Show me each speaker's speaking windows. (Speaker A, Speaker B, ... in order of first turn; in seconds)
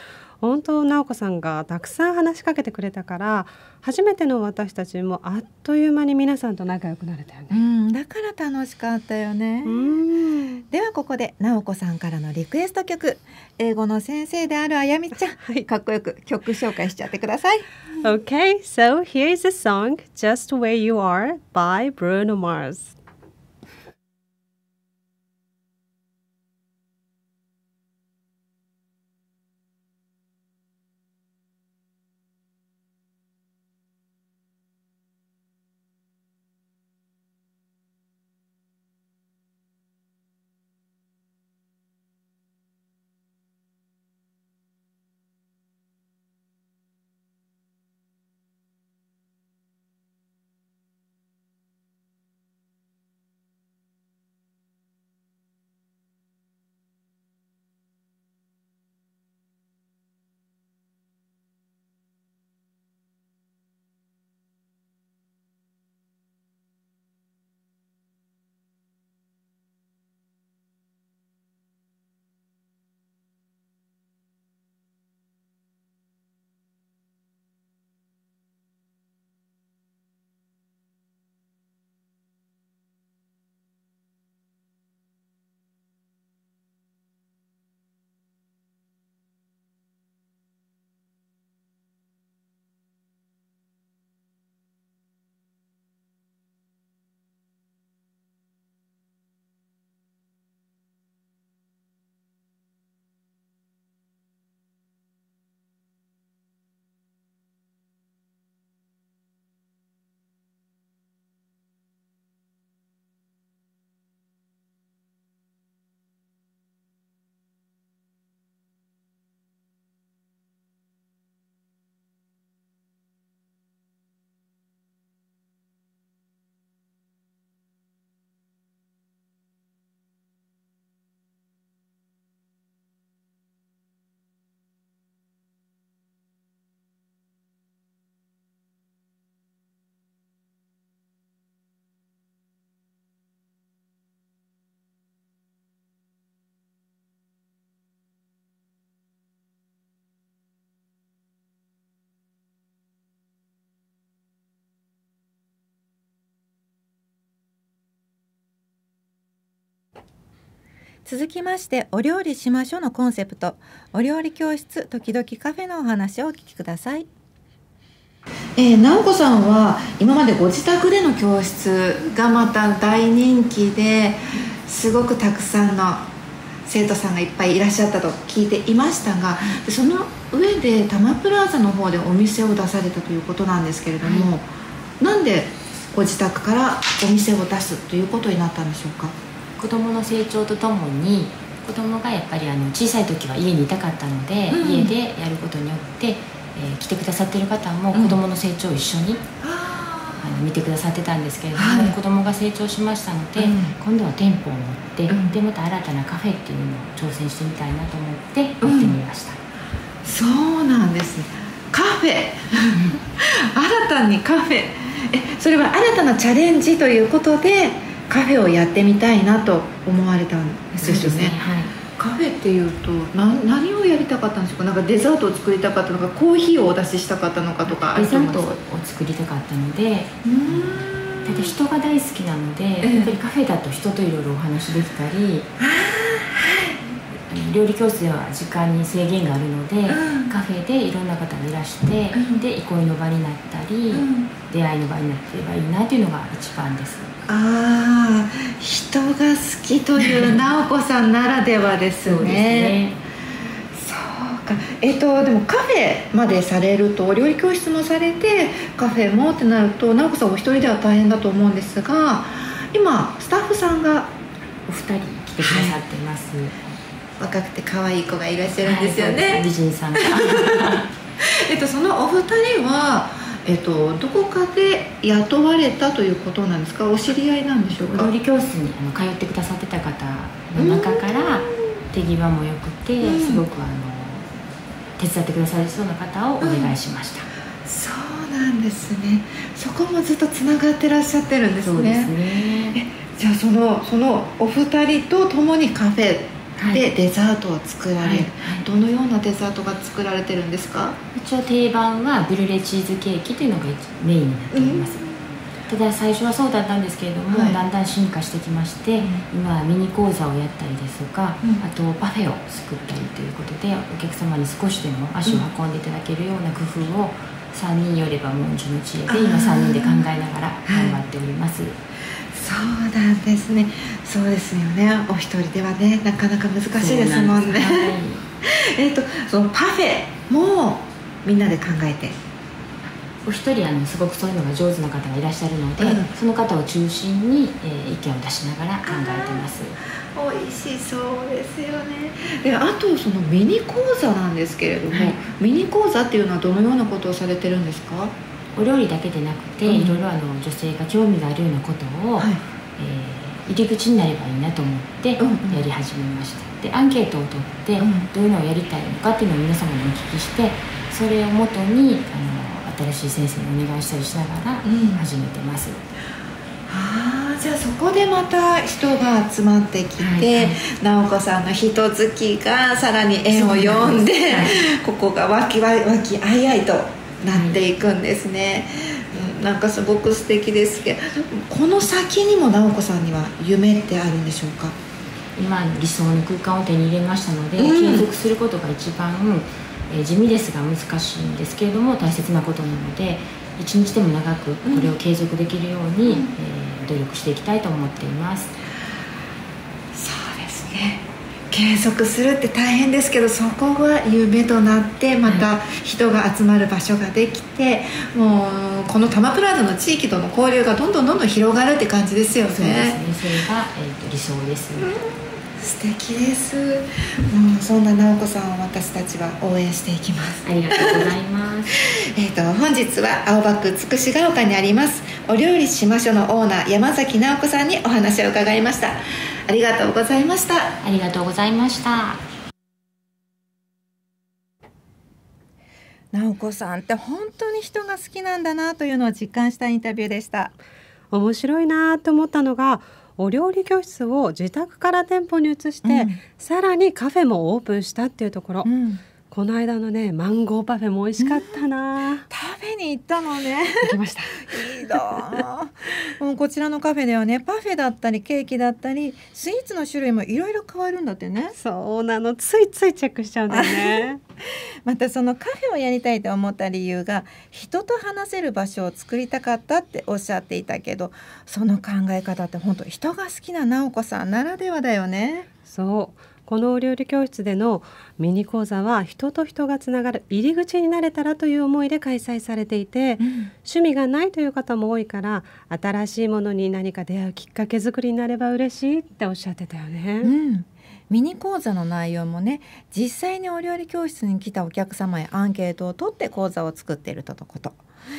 Speaker A: 0.4-7.5, 9.7-10.6, 15.4-15.7, 18.0-22.9, 441.1-448.7, 449.3-452.2, 453.8-455.4, 461.6-464.2, 475.7-490.3
Speaker B: 7.5-10.0, 10.7-17.7, 161.1-167.1, 168.6-176.1, 176.7-184.5, 185.0-189.2, 194.5-194.9, 197.9-198.2, 199.4-200.3, 201.5-201.9, 203.4-203.7, 205.1-205.3, 208.6-208.9, 210.0-221.3, 221.9-228.6, 230.2-231.5, 232.8-233.1, 235.6-236.8, 239.9-240.3, 242.1-242.4, 243.9-244.3, 247.2-252.8, 253.7-264.1, 265.4-265.8, 267.2-278.1, 280.6-281.6, 283.0-283.4, 286.4-286.8, 287.6-301.0, 304.5-305.2, 307.3-307.6, 309.0-309.2, 319.1-320.1, 320.6-321.0, 322.3-332.3, 335.8-336.1, 338.9-339.5, 340.1-348.1, 349.6-350.0, 355.2-355.6, 357.8-358.1, 364.6-365.1, 366.7-384.7, 387.6-388.1, 394.6-394.9, 396.1-396.3, 399.9-413.0, 414.8-421.1, 421.7-430.8, 436.1-440.5, 445.8-446.2, 448.6-449.0, 451.2-451.6, 452.3-461.5, 463.5-464.1, 464.9-475.5, 483.2-483.5, 490.2-497.8
Speaker C: 184.0-184.3, 189.6-199.3, 200.2-209.4, 212.7-212.9, 220.8-221.7, 227.7-235.5, 237.3-247.1, 250.0-250.4, 252.0-253.0, 264.6-266.8, 268.6-270.9, 277.8-284.4, 285.0-287.3, 291.6-292.8, 296.6-296.8, 298.0-298.6, 301.1-305.0, 305.7-321.8, 326.8-328.2, 333.2-339.8, 344.9-345.2, 348.5-365.8, 370.0-370.6, 373.3-374.6, 377.3-377.6, 385.4-398.5, 412.4-415.0, 420.4-421.8, 430.8-432.2